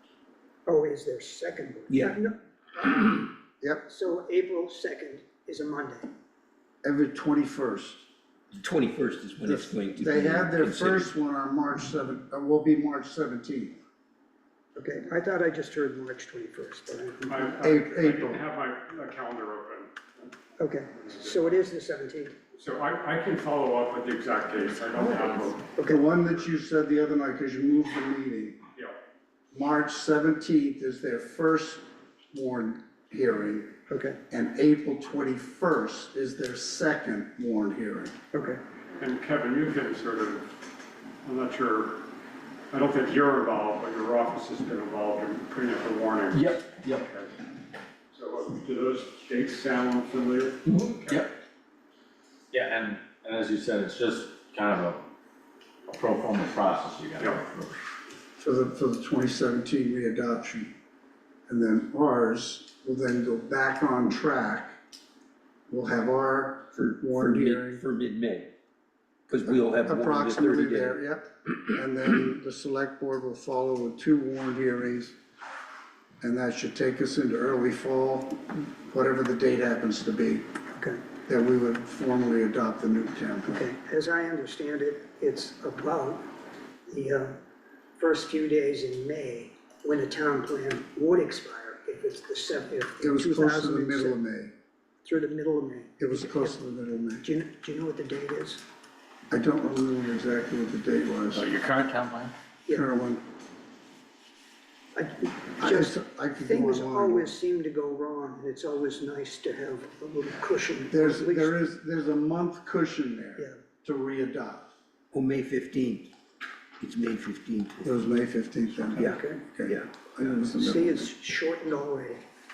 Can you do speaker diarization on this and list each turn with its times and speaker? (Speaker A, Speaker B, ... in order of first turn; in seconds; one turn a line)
Speaker A: 0.7-3.3
Speaker A: 3.9-6.1
Speaker B: 6.8-8.1
Speaker C: 8.6-11.1
Speaker B: 9.4-13.8
Speaker A: 14.8-17.5
Speaker D: 17.2-20.4
Speaker B: 17.6-18.4
Speaker A: 20.6-22.4
Speaker D: 20.9-21.6
Speaker D: 22.5-25.6
Speaker A: 25.0-26.0
Speaker B: 25.8-28.6
Speaker B: 29.5-33.7
Speaker A: 33.9-34.2
Speaker B: 34.3-38.1
Speaker A: 38.3-38.6
Speaker D: 39.0-40.6
Speaker D: 41.2-42.0
Speaker D: 42.7-47.4
Speaker E: 46.3-47.1
Speaker D: 48.1-51.3
Speaker C: 50.7-51.1
Speaker E: 52.5-55.0
Speaker E: 55.9-57.8
Speaker B: 58.4-60.7
Speaker B: 61.5-64.8
Speaker B: 65.7-67.8
Speaker C: 67.1-68.5
Speaker C: 69.3-71.0
Speaker B: 69.5-75.2
Speaker B: 76.2-80.5
Speaker A: 80.7-81.0
Speaker B: 81.2-83.6
Speaker A: 83.5-86.3
Speaker A: 86.9-87.4
Speaker A: 88.0-94.2
Speaker B: 93.0-94.5
Speaker A: 95.0-96.6
Speaker B: 96.0-97.2
Speaker A: 97.2-98.6
Speaker B: 99.3-101.5
Speaker E: 101.3-102.3
Speaker B: 102.7-103.2
Speaker A: 104.9-111.6
Speaker B: 105.6-107.3
Speaker B: 110.9-114.7
Speaker C: 115.1-116.1
Speaker C: 116.8-118.0
Speaker B: 117.8-121.1
Speaker A: 118.9-119.4
Speaker C: 119.0-119.9
Speaker A: 120.4-122.2